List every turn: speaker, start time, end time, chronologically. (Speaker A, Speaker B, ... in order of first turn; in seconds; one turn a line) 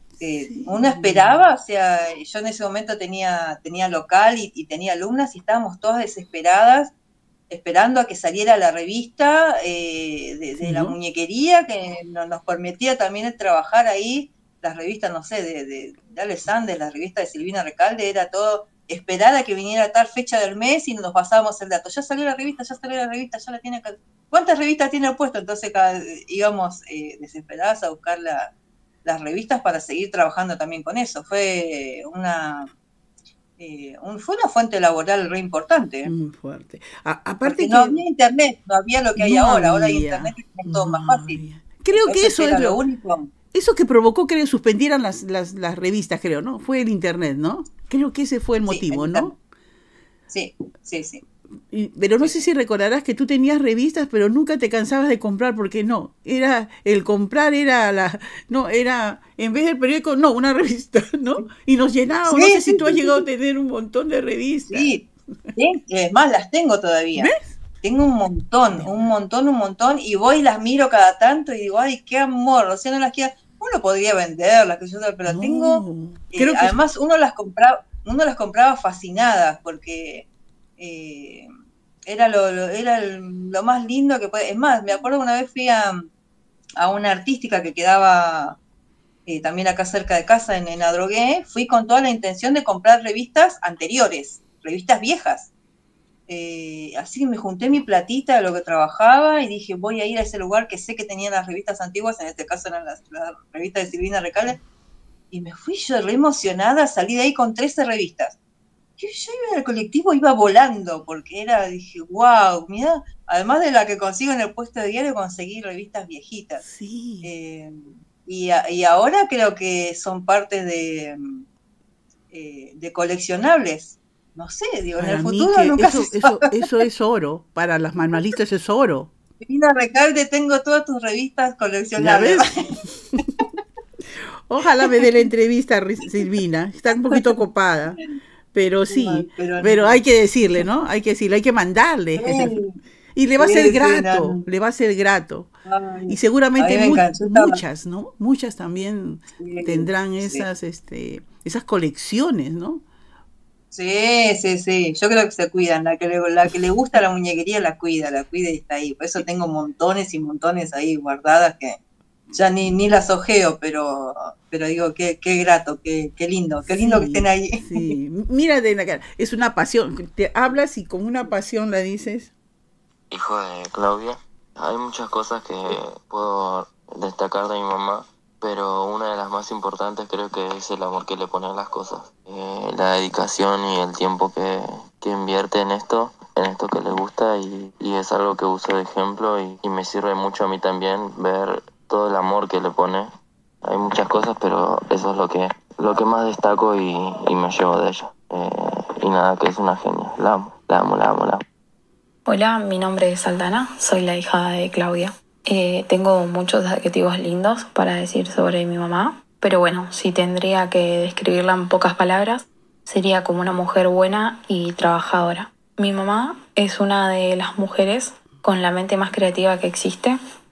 Speaker A: 0.2-6.9
Speaker B: 0.4-1.4
Speaker A: 7.5-28.5
Speaker B: 10.6-11.0
Speaker A: 29.0-32.7
Speaker A: 33.6-36.1
Speaker B: 36.0-38.0
Speaker A: 37.4-41.4
Speaker B: 39.2-42.8
Speaker A: 41.9-43.3
Speaker B: 43.5-49.4
Speaker A: 48.7-49.3
Speaker A: 50.3-51.2
Speaker B: 51.7-64.9
Speaker A: 62.3-63.2
Speaker A: 64.7-65.0
Speaker A: 65.5-67.3
Speaker B: 67.2-67.5
Speaker A: 67.8-80.2
Speaker B: 68.7-69.1
Speaker B: 75.2-76.8
Speaker A: 80.8-81.5
Speaker A: 82.0-86.0
Speaker A: 86.8-88.6
Speaker A: 89.2-95.5
Speaker A: 96.3-104.6
Speaker A: 105.3-108.3
Speaker A: 109.0-116.6
Speaker B: 116.6-117.3
Speaker A: 117.2-121.4
Speaker A: 122.3-126.5
Speaker B: 125.0-129.1
Speaker A: 129.4-133.4
Speaker B: 132.0-132.5
Speaker B: 134.5-138.0
Speaker A: 136.9-137.4
Speaker B: 138.5-142.5
Speaker A: 138.9-140.0
Speaker A: 142.2-142.7
Speaker B: 143.1-145.5
Speaker A: 143.4-144.4
Speaker A: 145.7-147.6
Speaker B: 146.1-152.8
Speaker A: 149.4-150.4
Speaker A: 153.7-161.8
Speaker A: 162.3-168.0
Speaker B: 166.7-172.3
Speaker C: 173.1-193.1
Speaker C: 193.6-201.4
Speaker D: 202.3-220.2